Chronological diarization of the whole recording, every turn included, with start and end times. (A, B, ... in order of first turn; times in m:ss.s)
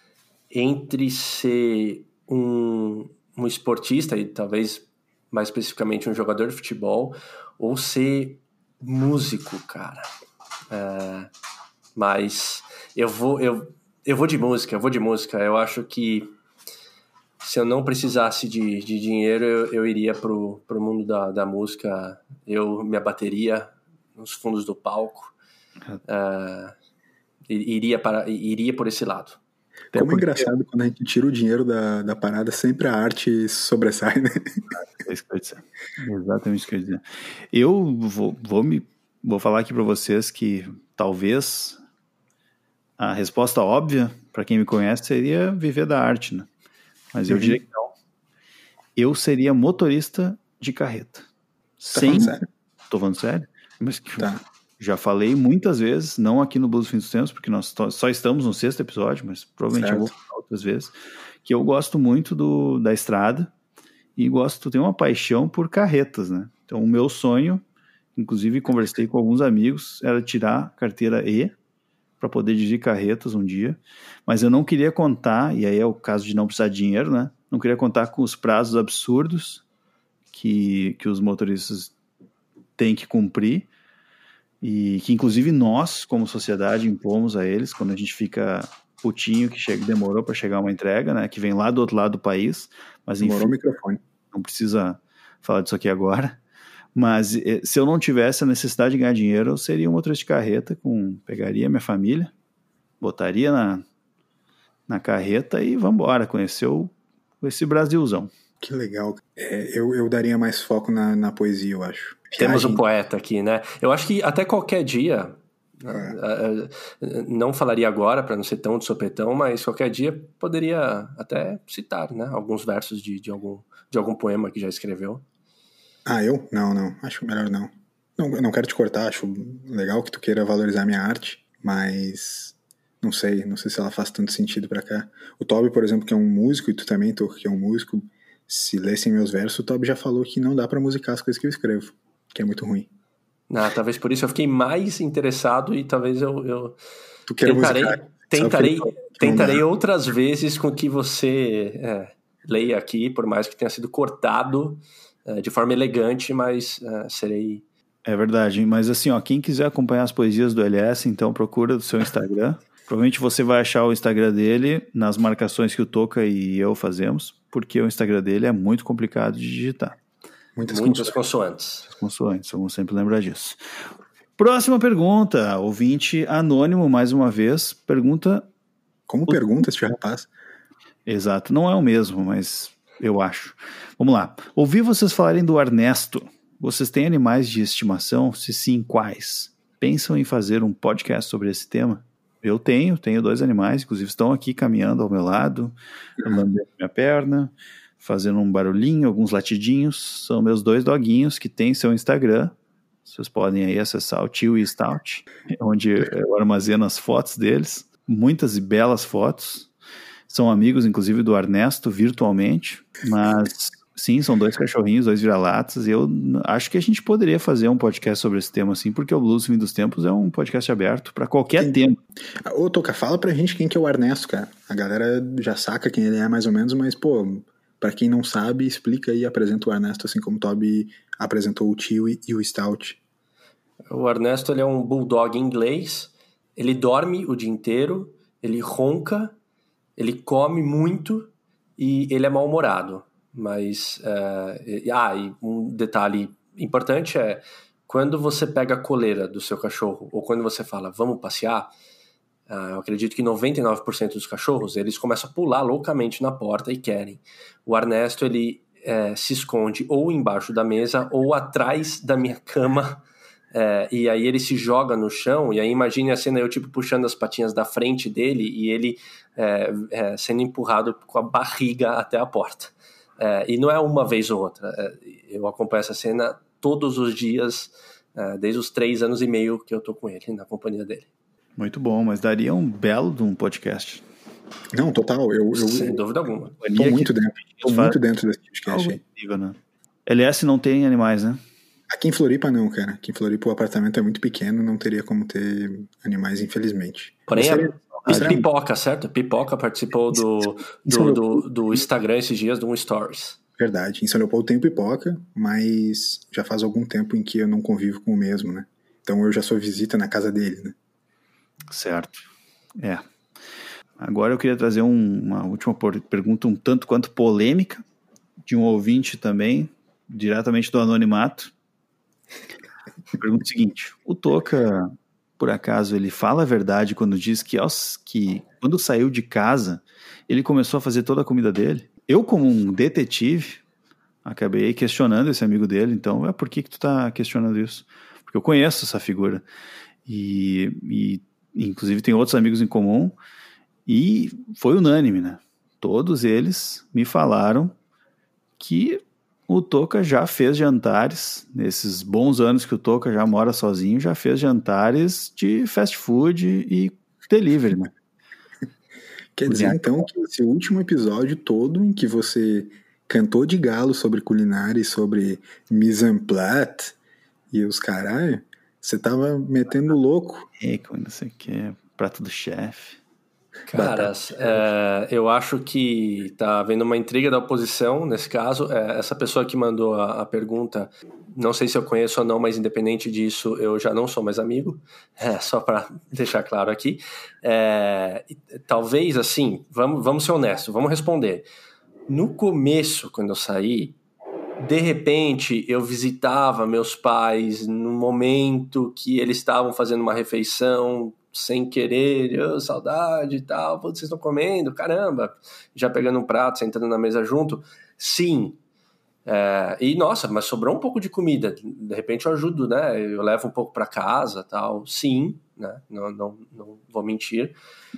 0:00.5-0:10.1 A
0:10.7-0:11.3 A
0:12.0-0:16.3 A
0:17.4-0:25.3 A
0:26.1-0:26.8 A
0:27.5-0:29.4 A
0:29.9-0:30.5 B
0:29.9-0:34.6 C
0:34.7-0:41.8 B
0:43.0-0:46.5 B
0:47.1-0:47.9 B
0:47.3-0:47.6 C
0:49.0-0:51.3 B
0:51.8-0:52.4 B
0:51.9-0:52.4 C
0:52.9-1:00.9 B
0:59.7-1:00.1 C
1:01.4-1:03.5 B
1:04.2-1:07.6 B
1:08.2-1:11.5 B
1:12.2-1:19.6 B
1:20.3-1:21.9 B
1:22.8-1:23.7 B
1:24.6-1:33.5 B
1:33.2-1:34.0 C
1:34.3-1:36.4 B
1:37.0-1:42.3 B
1:43.0-1:43.8 B
1:44.9-1:48.3 B
1:48.6-1:52.8 C
1:52.4-2:05.2 A
1:55.9-1:56.2 C
2:06.1-2:22.9 C
2:23.5-2:26.8 A
2:27.3-2:29.6 C
2:27.4-2:37.6 A
2:38.0-2:50.0 B
2:50.6-2:51.2 C
2:50.7-2:51.9 A
2:51.8-2:53.6 B
2:54.4-2:58.5 B
2:59.1-3:00.3 C
3:01.1-3:22.5 B
3:16.2-3:16.5 C
3:23.1-3:29.7 B
3:30.3-3:42.0 B
3:42.4-3:53.0 C
3:53.9-3:59.4 A
4:00.0-4:11.7 A
4:12.5-4:41.1 A
4:41.6-4:44.0 B
4:44.7-4:46.0 C
4:45.5-4:46.6 A
4:46.6-4:48.0 B
4:46.8-4:49.0 C
4:48.7-4:51.4 B
4:51.9-4:58.5 C
4:57.3-5:03.4 A
4:58.0-4:58.4 B
5:00.9-5:01.8 C
5:03.6-5:10.8 C
5:11.7-5:12.2 B
5:14.0-5:17.8 B
5:18.5-5:21.5 B
5:23.2-5:33.6 B
5:34.2-5:39.4 B
5:40.1-5:43.2 B
5:43.9-5:47.7 B
5:48.6-5:57.9 B
5:59.4-6:07.0 C
5:59.5-5:59.9 B
6:07.5-6:10.5 C
6:10.6-6:13.0 B
6:13.7-6:31.4 A
6:32.1-6:34.0 A
6:34.6-6:48.6 A
6:49.2-6:57.6 A